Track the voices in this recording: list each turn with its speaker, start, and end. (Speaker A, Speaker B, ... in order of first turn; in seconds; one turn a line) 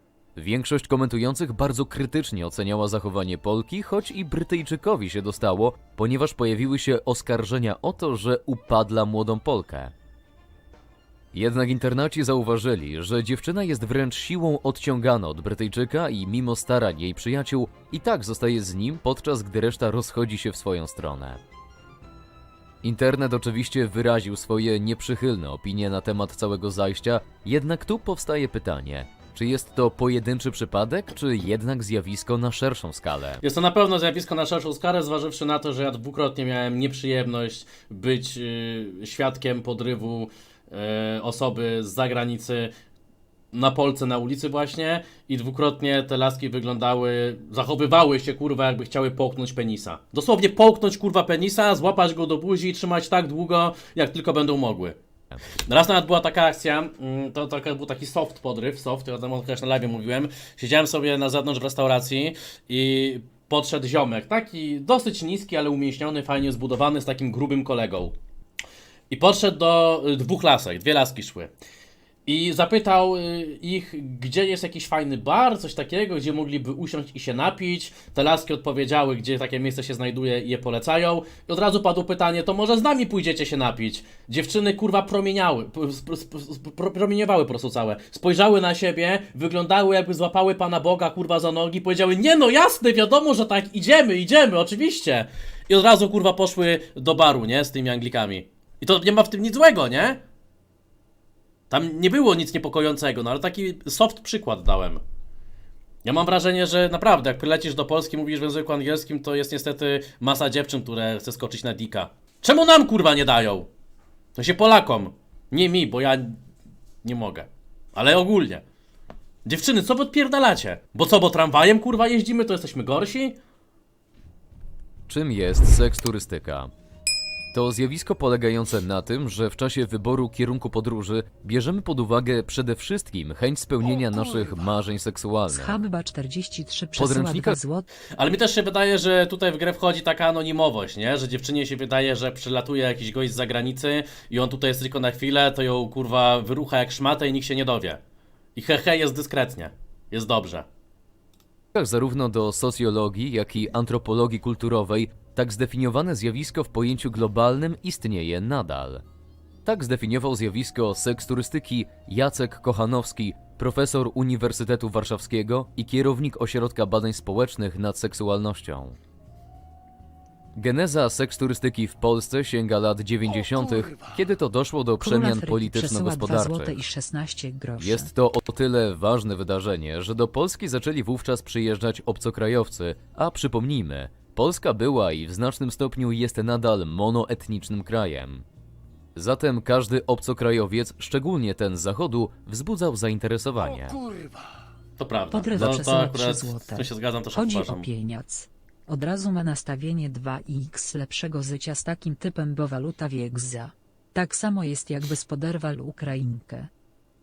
Speaker A: 0.3-9.9
Speaker A: 11.3-21.4
Speaker A: 22.8-33.4
Speaker B: 33.4-42.7
Speaker B: 43.5-55.0
Speaker B: 55.6-68.1
Speaker B: 69.1-71.5
Speaker B: 72.2-100.2
Speaker B: 101.7-105.0
Speaker B: 106.0-113.7
Speaker B: 114.3-116.4
Speaker B: 117.0-118.6
Speaker B: 119.5-123.4
Speaker A: 125.1-126.7
Speaker A: 127.5-135.8
Speaker C: 135.5-137.9
Speaker A: 136.9-137.6
Speaker B: 138.2-148.0
Speaker B: 148.5-150.7
Speaker A: 151.7-159.0
Speaker A: 159.6-169.0
Speaker A: 170.6-176.8
Speaker C: 175.0-178.1
Speaker A: 177.8-188.4
Speaker A: 189.1-194.0
Speaker B: 195.0-197.9
Speaker C: 195.3-206.7